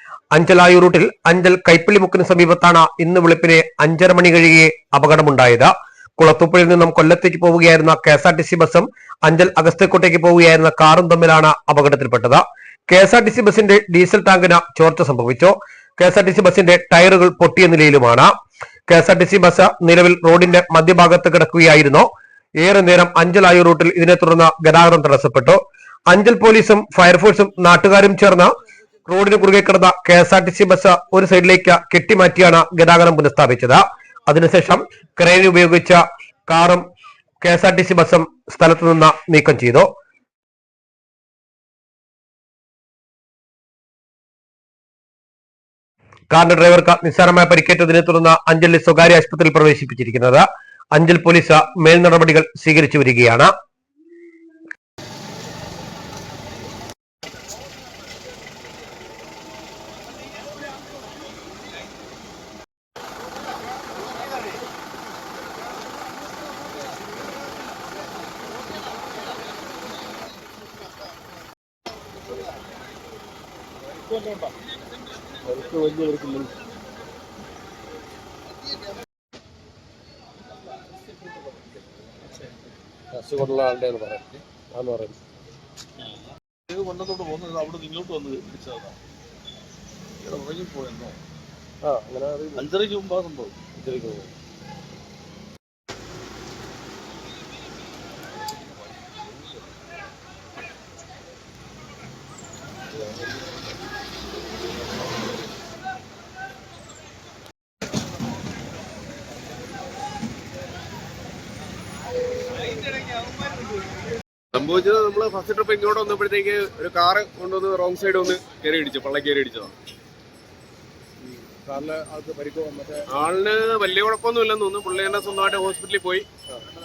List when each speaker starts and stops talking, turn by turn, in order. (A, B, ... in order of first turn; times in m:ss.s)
0:00.3-0:18.3 A
0:18.9-0:22.1 A
0:22.6-0:28.5 A
0:29.1-0:36.8 A
0:37.4-0:39.9 A
0:46.3-0:53.5 A
1:15.5-1:16.5 B
1:23.1-1:25.2 B
1:26.7-1:29.0 C
1:30.2-1:31.2 C
1:31.8-1:32.6 B
1:32.6-1:33.6 C
1:33.8-1:34.3 B
1:54.5-1:59.7 D
2:01.3-2:03.0 B
2:03.1-2:06.3 D